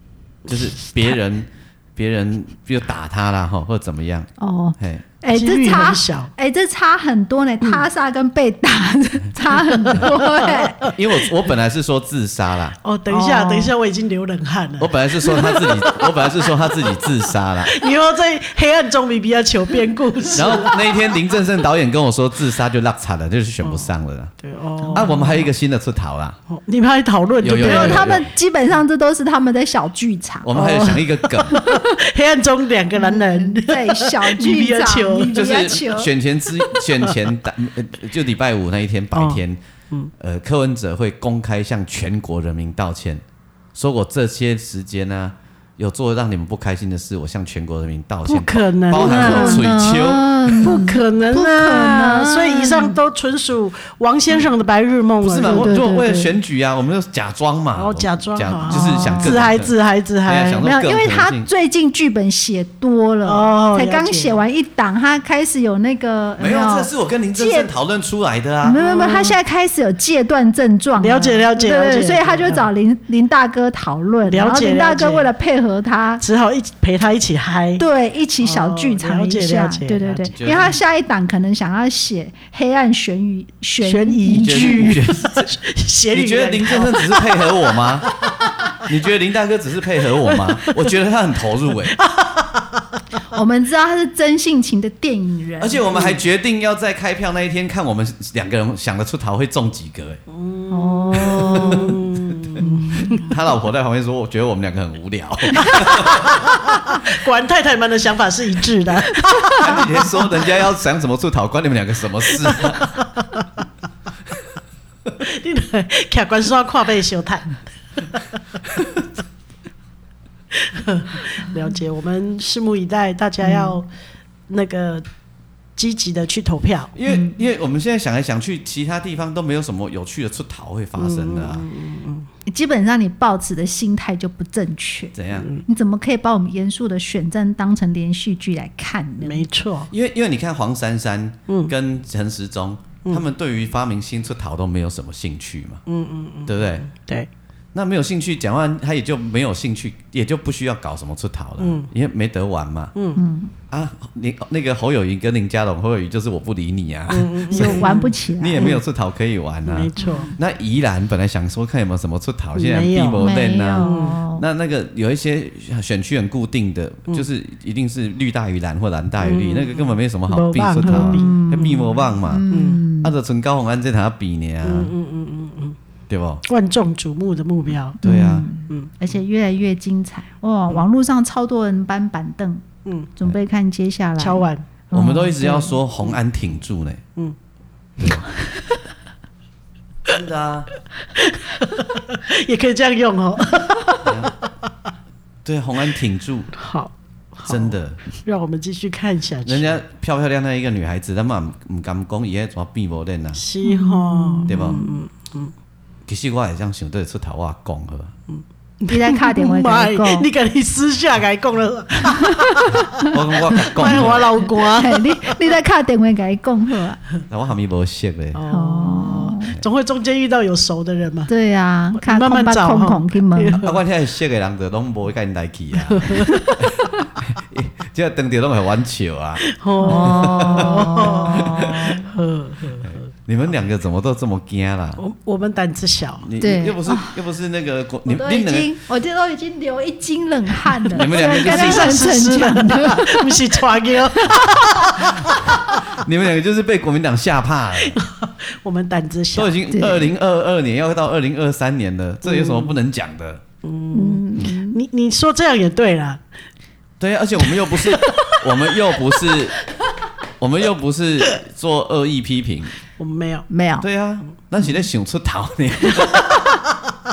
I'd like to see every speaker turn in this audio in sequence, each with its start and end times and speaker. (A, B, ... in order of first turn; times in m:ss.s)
0:00.5-0:05.1 A
0:00.5-0:01.1 B
0:04.4-0:10.8 C
0:05.3-0:06.3 B
0:09.8-0:10.9 B
0:10.8-0:12.8 A
0:12.8-0:21.2 B
0:13.1-0:13.7 C
0:14.8-0:17.9 A
0:20.3-0:24.3 A
0:23.6-0:23.9 B
0:24.4-0:25.3 B
0:24.8-0:25.5 C
0:24.9-0:26.4 A
0:26.5-0:28.1 B
0:27.4-0:28.3 A
0:27.6-0:30.5 C
0:30.4-0:31.6 A
0:30.5-0:35.8 B
0:31.5-0:31.9 C
0:32.9-0:36.1 C
0:35.3-0:39.6 A
0:36.6-0:37.2 B
0:39.1-0:40.1 B
0:40.2-0:43.2 A
0:43.8-0:50.7 A
0:48.3-0:49.6 B
0:48.9-0:53.0 C
0:50.6-0:55.8 B
0:55.2-0:59.7 A
0:55.4-0:56.3 C
0:57.8-1:00.6 B
0:58.7-0:59.4 C
1:00.2-1:01.5 A
1:00.6-1:07.7 C
1:03.2-1:04.4 B
1:06.4-1:08.8 A
1:08.6-1:16.2 C
1:08.7-1:09.4 B
1:11.0-1:12.7 B
1:14.3-1:15.3 B
1:16.2-1:17.8 B
1:17.8-1:25.4 C
1:18.4-1:20.3 B
1:20.3-1:20.8 A
1:23.8-1:28.3 B
1:24.3-1:25.4 A
1:26.1-1:28.1 A
1:28.9-1:32.0 A
1:30.2-1:30.9 B
1:31.9-1:32.8 B
1:33.3-1:35.8 C
1:35.6-1:40.2 A
1:35.9-1:36.2 B
1:40.3-1:43.3 B
1:40.7-1:42.0 C
1:41.2-1:42.0 A
1:42.6-1:43.3 C
1:43.2-1:46.5 A
1:46.0-1:50.0 B
1:49.2-1:49.7 C
1:49.5-1:52.8 A
1:52.6-1:52.9 B
1:55.2-1:57.6 B
2:00.5-2:03.9 B
2:03.4-2:03.8 C
2:04.5-2:05.0 B
2:05.8-2:06.9 B
2:06.9-2:11.7 A
2:07.1-2:07.4 C
2:11.0-2:12.3 B
2:12.5-2:19.4 C
2:15.1-2:15.5 A
2:15.4-2:15.6 B
2:19.2-2:19.9 B
2:19.9-2:25.8 A
2:21.5-2:21.7 B
2:25.9-2:27.3 B
2:26.5-2:26.9 A
2:27.7-2:32.9 A
2:31.6-2:31.9 B
2:32.9-2:33.2 B
2:33.2-2:33.5 C
2:33.7-2:54.9 A
2:37.1-2:38.8 B
2:37.5-2:38.8 C
2:39.6-2:40.3 B
2:40.0-2:40.3 C
2:42.6-2:43.3 B
2:43.2-2:44.4 C
2:43.8-2:44.2 B
2:49.2-2:51.4 B
2:50.9-2:53.1 C
2:52.5-2:52.8 B
2:54.6-2:55.8 B
2:56.1-2:56.4 A
2:56.4-2:58.0 B
2:58.0-3:02.6 C
2:58.0-2:58.5 A
3:02.9-3:03.1 B
3:03.2-3:05.8 C
3:04.2-3:04.6 B
3:04.9-3:07.0 A
3:08.0-3:08.2 B
3:10.1-3:10.7 A
3:11.1-3:14.1 B
3:14.0-3:14.4 A
3:15.4-3:16.5 A
3:16.6-3:19.8 B
3:17.4-3:18.0 A
3:19.4-3:23.4 A
3:23.4-3:25.5 B
3:23.6-3:25.0 C
3:24.5-3:24.8 A
3:26.1-3:28.1 A
3:28.3-3:35.4 B
3:28.9-3:30.3 C
3:32.1-3:33.1 C
3:33.0-3:34.5 A
3:33.9-3:37.0 C
3:37.3-3:38.4 A
3:38.3-3:41.3 B
3:38.5-3:39.5 C
3:41.3-3:43.6 C
3:41.9-3:43.8 B
3:43.5-3:52.0 A
3:45.9-3:46.4 B
3:46.3-3:46.6 C
3:49.5-3:53.1 B
3:49.8-3:52.1 C
3:52.9-3:55.0 A
3:55.0-3:56.3 B
3:56.2-3:58.7 A
3:56.4-3:57.1 C
3:58.1-4:03.4 C
4:00.9-4:02.1 A
4:00.9-4:05.7 B
4:05.0-4:05.3 A
4:05.8-4:08.0 A
4:07.8-4:09.6 B
4:09.3-4:13.4 A
4:09.7-4:10.1 C
4:12.2-4:12.8 B
4:13.6-4:16.2 B
4:13.9-4:14.8 C
4:17.0-4:19.6 A
4:17.5-4:19.4 B
4:20.4-4:22.7 A
4:23.0-4:23.5 B
4:23.5-4:23.9 C
4:23.8-4:26.6 A